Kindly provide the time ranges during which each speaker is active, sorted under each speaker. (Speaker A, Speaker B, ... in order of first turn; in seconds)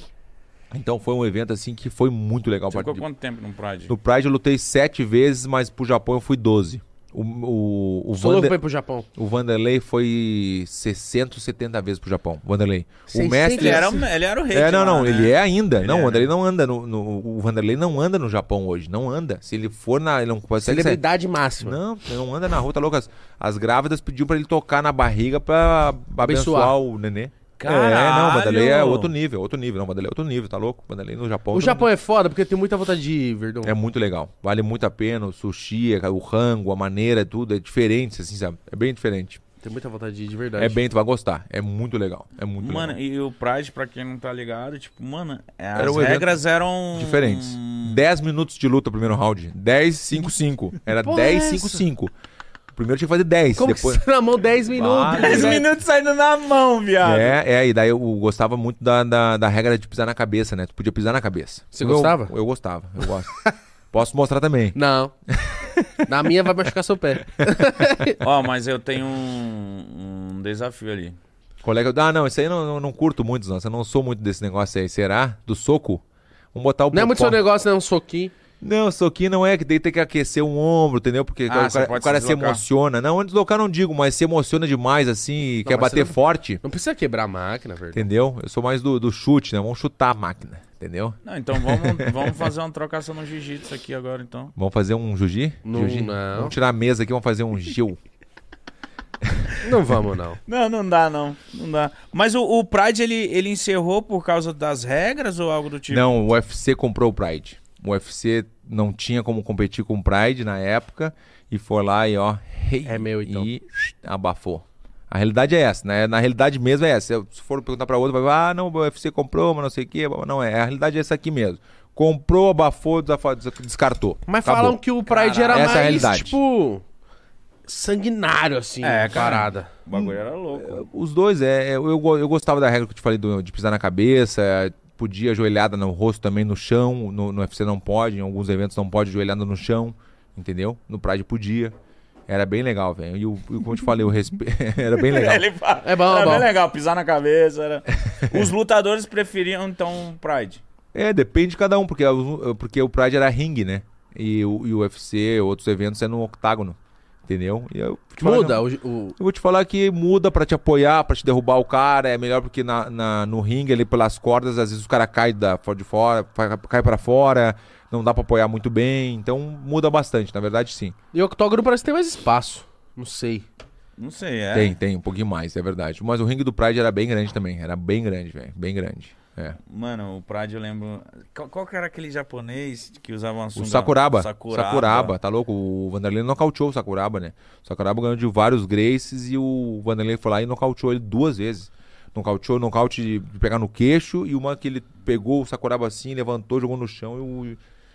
Speaker A: 0.7-3.1, 3.9-8.6, 9.2-14.0, 14.5-21.0, 21.6-31.9, 33.6-39.4, 40.6-43.0, 45.8-46.4, 46.9-52.1, 52.7-55.7, 57.0-64.8, 65.3-66.0, 71.6-76.0, 76.5-77.4, 78.6-86.6, 87.9-92.5, 94.5-98.0, 105.9-124.8, 125.5-126.4, 129.9-141.7, 142.3-145.5, 150.9-158.7, 159.2-170.9, 174.5-179.6, 183.6-197.6
Speaker B: 2.7-3.9, 13.6-16.3, 27.6-29.1, 42.6-48.0, 55.1-57.4, 68.2-71.2, 81.5-82.6, 91.2-94.5, 100.5-106.1, 125.1-126.1, 128.8-130.8, 145.0-150.6, 174.0-174.8, 179.6-185.2
Speaker C: 8.2-9.1, 13.1-14.0, 20.6-21.8, 26.2-26.8, 31.5-33.8, 39.6-40.8, 51.0-51.8, 53.6-55.6, 61.7-62.3, 64.7-65.1, 66.0-68.2, 76.9-78.3, 85.6-88.0, 95.6-96.5, 99.6-100.4, 112.8-113.5, 124.3-126.8, 127.7-129.7, 145.8-146.5, 158.2-159.2, 171.1-173.4